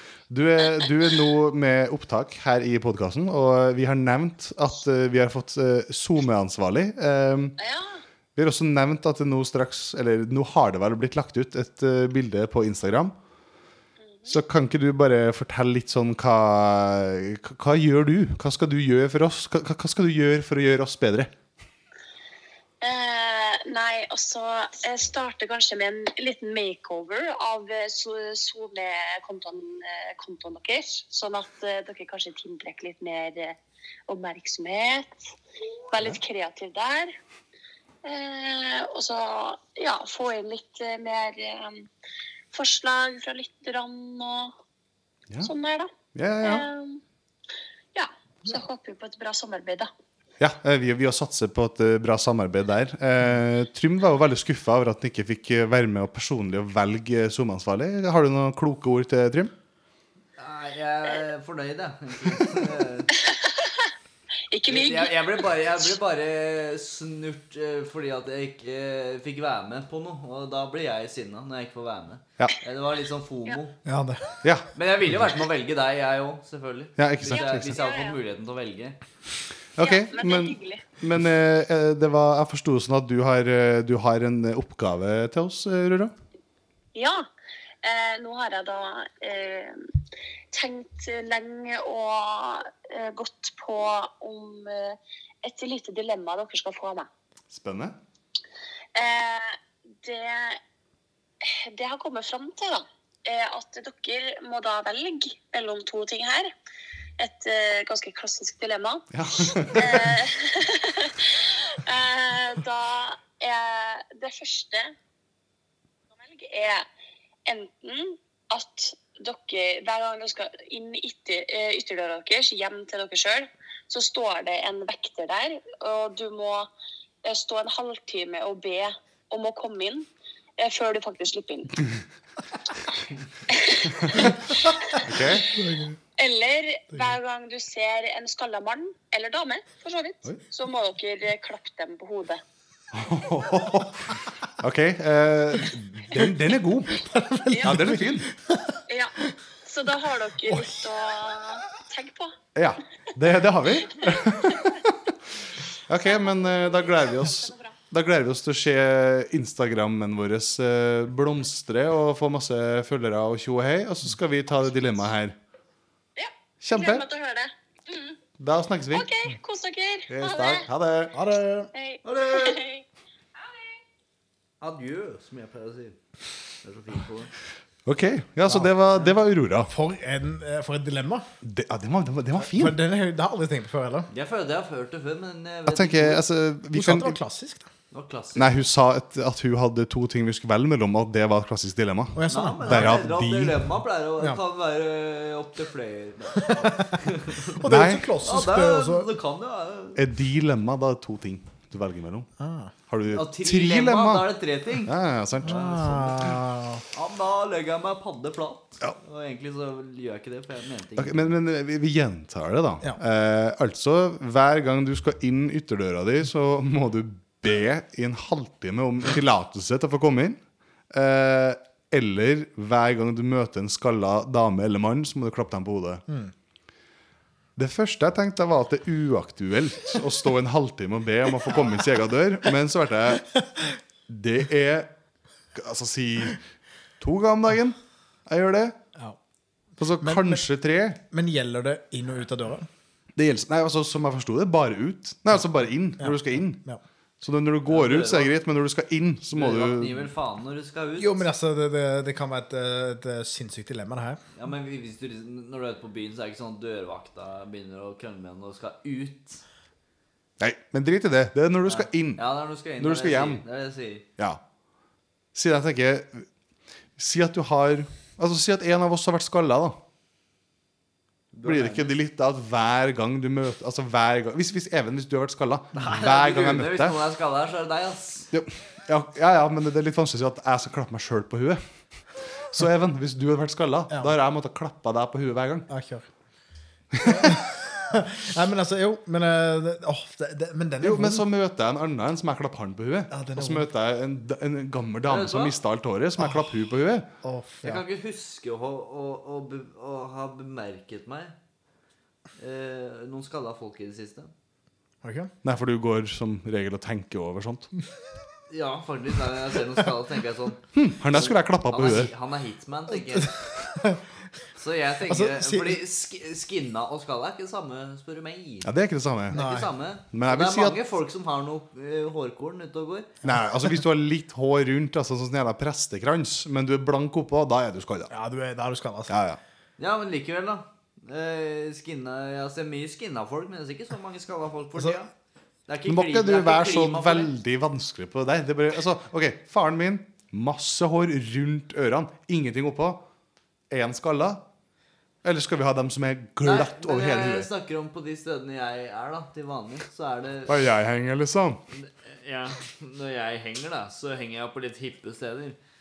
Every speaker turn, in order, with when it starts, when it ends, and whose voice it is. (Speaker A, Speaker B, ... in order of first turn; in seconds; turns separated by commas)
Speaker A: 0.3-7.6, Speaker B: 0.6-1.1, Speaker B: 7.6-8.0, Speaker A: 8.3-13.1, Speaker B: 14.1-14.4, Speaker A: 14.3-21.3, Speaker B: 22.8-33.6, Speaker B: 34.1-35.3, Speaker B: 35.9-37.1, Speaker B: 38.0-41.9, Speaker B: 42.5-44.5, Speaker B: 45.4-45.9, Speaker A: 46.1-46.6, Speaker B: 46.4-47.0, Speaker B: 47.9-49.9, Speaker A: 50.4-59.5, Speaker C: 60.4-63.1, Speaker B: 63.2-63.9, Speaker B: 64.5-65.5, Speaker C: 64.7-73.7, Speaker D: 73.8-74.3, Speaker A: 74.4-74.7, Speaker C: 74.7-79.0, Speaker A: 77.0-77.8, Speaker B: 77.3-78.2, Speaker A: 79.8-86.1, Speaker B: 79.8-80.8, Speaker B: 86.9-87.2, Speaker B: 87.8-89.8, Speaker B: 90.5-97.1, Speaker A: 97.5-97.9, Speaker B: 98.9-100.6, Speaker B: 101.4-106.5, Speaker B: 107.2-114.9, Speaker A: 109.1-110.2, Speaker B: 116.1-116.8, Speaker B: 117.5-126.7, Speaker B: 127.2-130.1, Speaker B: 130.6-131.9, Speaker B: 133.5-135.6, Speaker A: 134.9-135.5, Speaker D: 135.4-136.0, Speaker B: 136.2-142.4, Speaker A: 142.9-147.0, Speaker D: 146.9-148.8, Speaker B: 147.5-147.9, Speaker A: 147.6-148.3, Speaker B: 148.9-152.3, Speaker D: 150.4-150.7, Speaker A: 152.5-155.0, Speaker A: 155.9-165.3, Speaker B: 156.0-157.7, Speaker B: 166.2-168.2, Speaker A: 166.6-167.1, Speaker A: 168.4-169.1, Speaker B: 168.9-170.7, Speaker A: 170.1-171.1, Speaker D: 171.1-171.7, Speaker B: 171.7-172.8, Speaker C: 172.0-172.6, Speaker B: 173.4-173.7, Speaker C: 174.6-176.0, Speaker C: 176.6-177.3, Speaker A: 177.8-179.7, Speaker D: 179.7-181.2, Speaker A: 181.4-182.8, Speaker D: 182.4-184.1, Speaker C: 184.1-186.2, Speaker A: 185.7-187.2, Speaker D: 186.7-187.7, Speaker C: 187.9-188.5, Speaker A: 188.3-193.6, Speaker D: 192.1-193.0, Speaker C: 192.3-197.6, Speaker D: 196.4-196.9, Speaker D: 197.5-199.1, Speaker A: 197.6-198.1, Speaker C: 198.2-200.0, Speaker A: 199.9-202.3, Speaker D: 202.4-202.7, Speaker A: 202.9-204.3, Speaker C: 203.1-206.1, Speaker A: 204.8-206.4, Speaker D: 205.4-206.8, Speaker C: 206.9-211.3, Speaker A: 211.0-220.4, Speaker A: 220.9-226.0, Speaker A: 227.6-233.3, Speaker A: 234.1-234.9, Speaker A: 235.5-236.4, Speaker A: 237.0-238.8, Speaker A: 239.8-241.0, Speaker D: 240.0-240.4, Speaker D: 241.1-242.7, Speaker A: 243.2-246.6, Speaker D: 246.0-246.8, Speaker A: 247.2-250.0, Speaker C: 247.7-248.3, Speaker C: 249.3-251.2, Speaker D: 251.0-254.2, Speaker C: 254.4-259.4, Speaker A: 260.4-262.2, Speaker C: 261.6-264.0, Speaker A: 262.8-263.4, Speaker A: 265.3-266.3, Speaker A: 267.0-269.8, Speaker C: 271.3-271.9, Speaker A: 271.4-277.0, Speaker C: 275.7-278.3, Speaker A: 278.3-281.6, Speaker A: 282.5-285.7, Speaker D: 285.7-286.1, Speaker A: 286.9-287.3, Speaker D: 287.0-291.3, Speaker A: 290.8-297.1, Speaker D: 293.1-293.7, Speaker C: 295.1-295.6, Speaker D: 297.2-297.8, Speaker C: 297.6-301.3, Speaker C: 302.4-304.3, Speaker D: 305.0-305.3, Speaker A: 305.4-307.7, Speaker C: 308.5-310.6, Speaker A: 310.7-312.1, Speaker C: 311.1-313.3, Speaker D: 313.2-314.0, Speaker C: 314.6-318.7, Speaker D: 315.1-315.8, Speaker A: 318.6-319.4, Speaker D: 319.3-319.7, Speaker C: 319.3-323.1, Speaker A: 320.1-320.8, Speaker A: 323.2-328.1, Speaker D: 328.1-329.1, Speaker A: 329.1-329.4, Speaker C: 329.8-335.1, Speaker C: 335.7-337.3, Speaker A: 335.9-343.0, Speaker A: 343.7-344.4, Speaker A: 345.2-347.5, Speaker C: 346.4-350.6, Speaker A: 350.5-351.6, Speaker C: 351.7-355.6